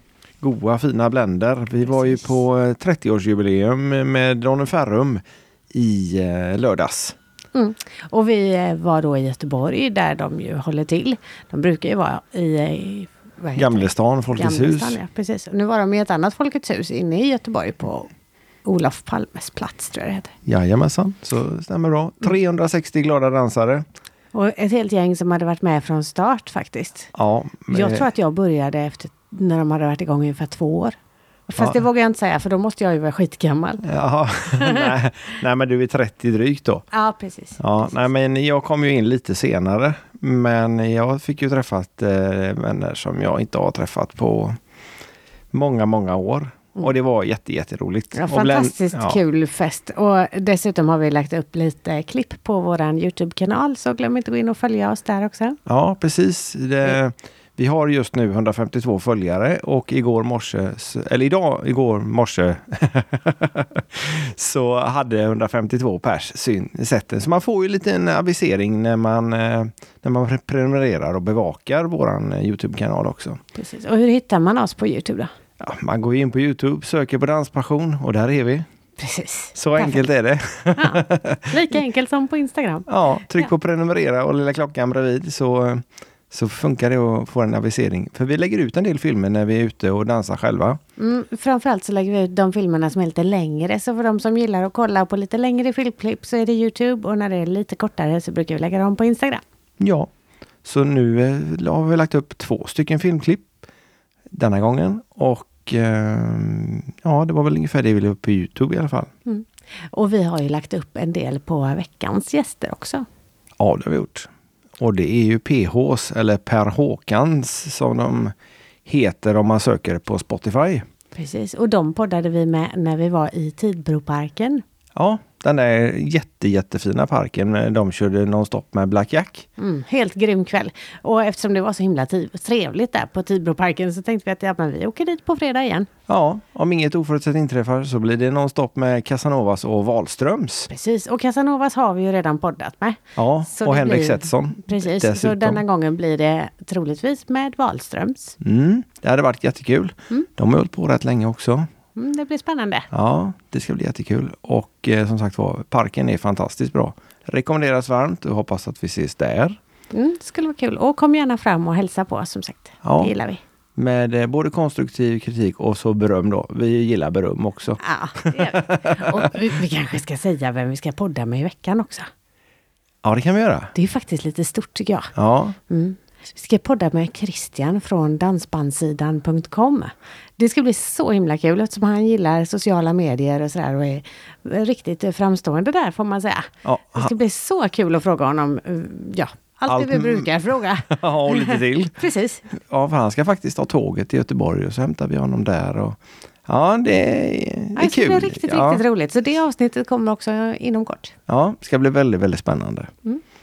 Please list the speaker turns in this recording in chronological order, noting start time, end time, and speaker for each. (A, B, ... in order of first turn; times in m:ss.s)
0:00.4-0:07.2 A
0:07.5-0:18.1 B
0:13.6-0:15.0 A
0:18.6-0:20.3 B
0:20.4-0:23.8 A
0:24.3-0:27.1 B
0:27.1-0:28.1 A
0:27.7-0:30.9 B
0:31.5-0:33.8 B
0:33.8-0:36.8 A
0:36.9-0:37.8 B
0:37.6-0:44.6 A
0:45.5-0:49.2 A
0:48.1-0:55.6 B
0:55.6-1:13.4 A
1:13.5-1:15.3 B
1:15.6-1:18.6 A
1:19.0-1:20.0 B
1:19.5-1:21.6 A
1:20.8-1:23.5 B
1:22.9-1:30.8 A
1:31.0-1:39.4 B
1:39.8-1:40.1 A
1:40.6-1:43.5 A
1:44.3-1:49.1 A
1:49.2-1:53.0 B
1:53.6-1:58.3 A
1:58.8-2:00.8 A
2:01.2-2:04.6 B
2:04.9-2:09.5 A
2:09.6-2:15.9 B
2:16.1-2:20.7 A
2:20.7-2:28.4 B
2:23.2-2:25.6 A
2:28.4-2:31.7 A
2:32.0-2:32.9 B
2:32.9-2:39.6 A
2:39.9-2:43.4 B
2:42.8-2:43.1 A
2:43.8-2:49.3 A
2:47.8-2:52.1 B
2:53.0-2:53.7 A
2:53.7-2:55.1 B
2:55.1-2:55.6 A
2:55.7-3:12.4 B
3:06.6-3:07.1 A
3:09.7-3:10.3 A
3:10.9-3:12.0 A
3:12.6-3:18.8 A
3:17.8-3:21.1 B
3:21.3-3:22.9 A